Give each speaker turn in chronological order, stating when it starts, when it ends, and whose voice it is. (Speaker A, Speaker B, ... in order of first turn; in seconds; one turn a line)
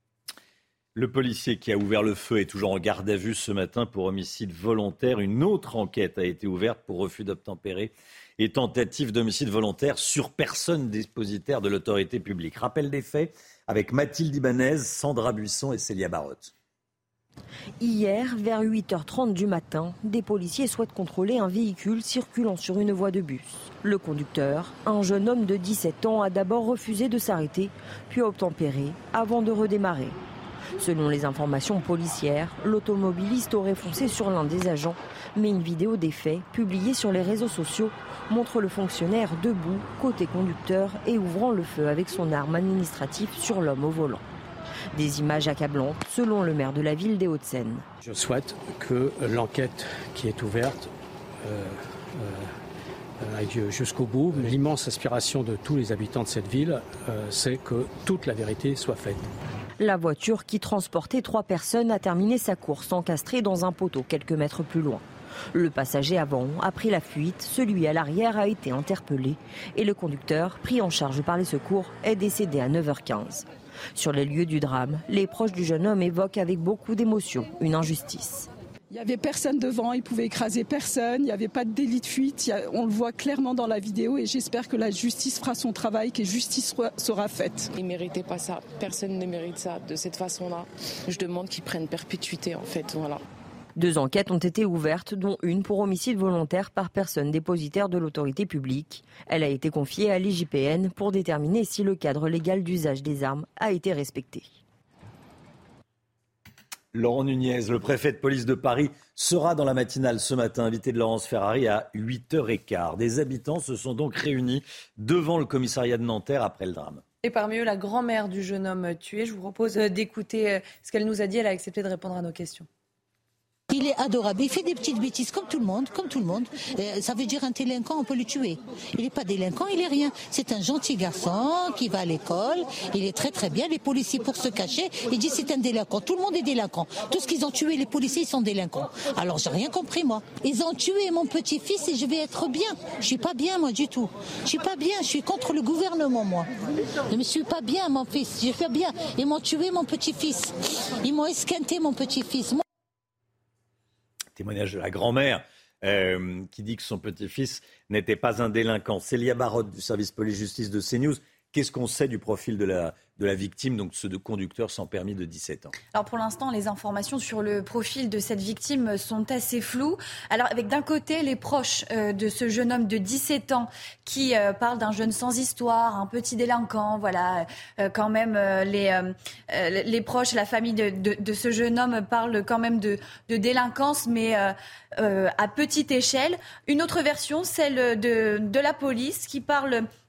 Speaker A: 0.9-16.5
Speaker B: 17.8-30.2
Speaker B: 30.8-44.2
Speaker B: 44.9-47.9
Speaker C: 48.0-50.9
Speaker C: 51.4-52.5
Speaker C: 53.2-59.3
Speaker B: 59.8-78.5
Speaker D: 78.9-87.7
Speaker E: 87.8-93.2
Speaker B: 93.8-104.6
Speaker A: 106.9-117.0
Speaker F: 117.2-122.7
Speaker G: 123.7-146.5
Speaker G: 147.1-152.6
Speaker A: 154.4-165.7
Speaker H: 165.9-189.9